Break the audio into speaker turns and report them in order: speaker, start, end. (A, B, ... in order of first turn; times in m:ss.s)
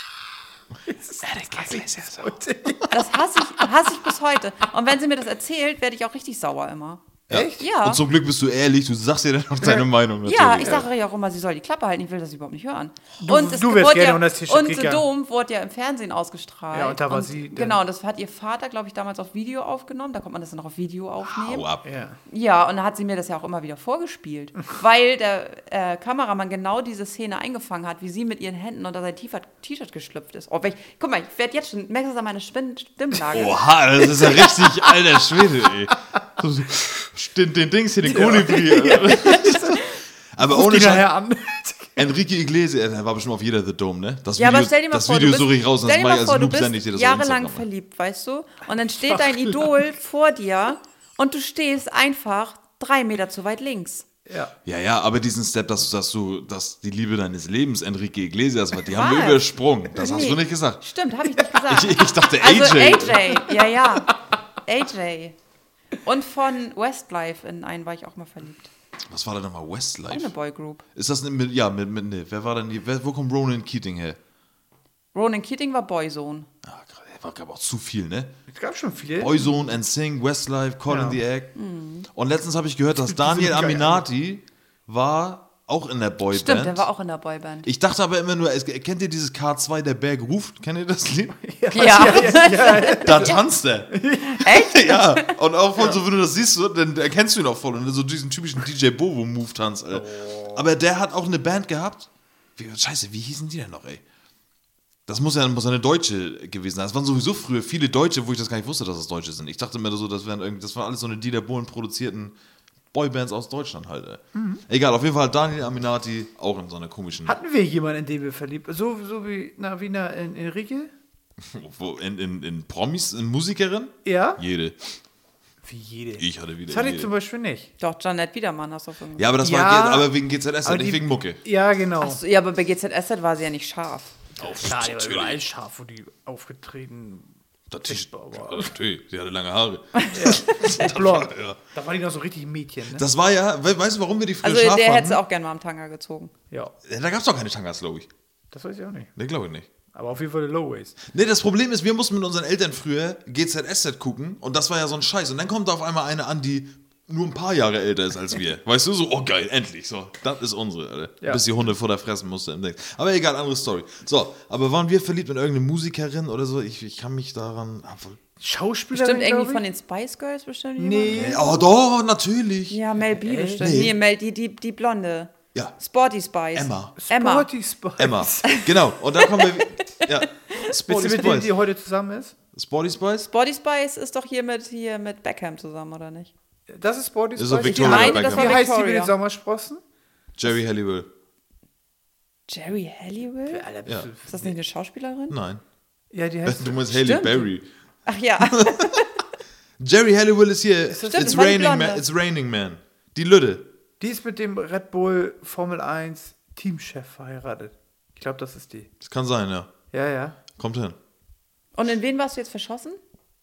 0:00.9-0:03.7 A
0:01.6-0:02.1 B
0:02.9-0:08.0 C
0:07.3-0:10.9 B
0:07.3-0:07.6 A
0:10.2-0:21.7 C
0:13.2-0:15.0 A
0:16.7-0:17.8 A
0:21.3-0:21.8 B
0:21.8-0:22.2 A
0:22.3-0:33.6 C
0:33.3-0:41.1 B
0:34.1-0:35.3 A
0:38.0-0:42.1 A
0:42.0-0:47.6 B
0:44.4-0:54.0 C
0:48.9-0:49.8 A
0:54.3-0:54.5 A
0:54.6-1:00.8 B
0:58.9-1:05.4 C
1:01.6-1:03.4 B
1:06.0-1:08.7 C
1:09.1-1:10.3 B
1:10.1-1:10.8 C
1:10.9-1:14.2 B
1:15.1-1:16.5 C
1:16.6-1:18.3 B
1:18.5-1:19.4 A
1:19.2-1:21.5 B
1:20.9-1:21.2 A
1:21.5-1:22.1 C
1:22.1-1:26.8 B
1:23.0-1:24.0 A
1:26.3-1:27.7 C
1:27.6-1:44.0 B
1:31.4-1:33.4 A
1:31.7-1:33.4 C
1:33.9-1:34.4 A
1:34.2-1:35.4 C
1:39.9-1:40.6 A
1:45.1-1:52.3 B
1:52.9-1:57.4 B
1:54.3-1:54.6 A
1:57.2-2:00.9 A
2:01.4-2:04.9 B
2:04.0-2:04.4 A
2:05.6-2:07.7 A
2:06.2-2:07.1 B
2:07.8-2:09.4 C
2:09.2-2:11.4 B
2:09.4-2:10.1 A
2:10.6-2:12.2 A
2:12.0-2:14.1 C
2:14.4-2:15.4 B
2:14.5-2:17.3 A
2:17.7-2:21.6 B
2:17.8-2:18.7 A
2:20.0-2:20.4 C
2:20.1-2:23.0 A
2:22.8-2:25.2 B
2:24.4-2:26.3 C
2:26.8-2:28.1 B
2:28.5-2:29.1 A
2:29.2-2:29.7 B
2:29.9-2:31.0 A
2:31.1-2:48.2 B
2:48.4-2:49.6 A
2:48.9-2:51.6 C
2:50.8-2:51.4 A
2:51.1-2:52.8 B
2:52.7-2:57.5 C
2:53.1-2:53.8 A
2:53.6-2:53.9 B
2:56.5-2:56.9 B
2:57.0-2:58.6 A
2:58.0-3:01.5 B
2:58.5-3:00.7 C
3:00.7-3:02.4 A
3:02.5-3:03.3 B
3:03.3-3:06.3 C
3:06.7-3:09.8 A
3:07.4-3:08.6 B
3:07.6-3:09.1 C
3:10.4-3:11.1 B
3:12.5-3:13.7 C
3:13.5-3:14.5 A
3:14.2-3:15.4 C
3:15.3-3:15.6 B
3:16.1-3:17.4 A
3:16.4-3:17.7 B
3:17.0-3:17.3 C
3:18.0-3:19.2 C
3:18.4-3:19.0 B
3:19.8-3:23.7 B
3:20.9-3:21.4 A
3:21.1-3:22.0 C
3:24.0-3:28.9 A
3:29.0-3:29.7 B
3:29.9-3:30.4 A
3:30.6-3:31.0 B
3:31.7-3:33.0 C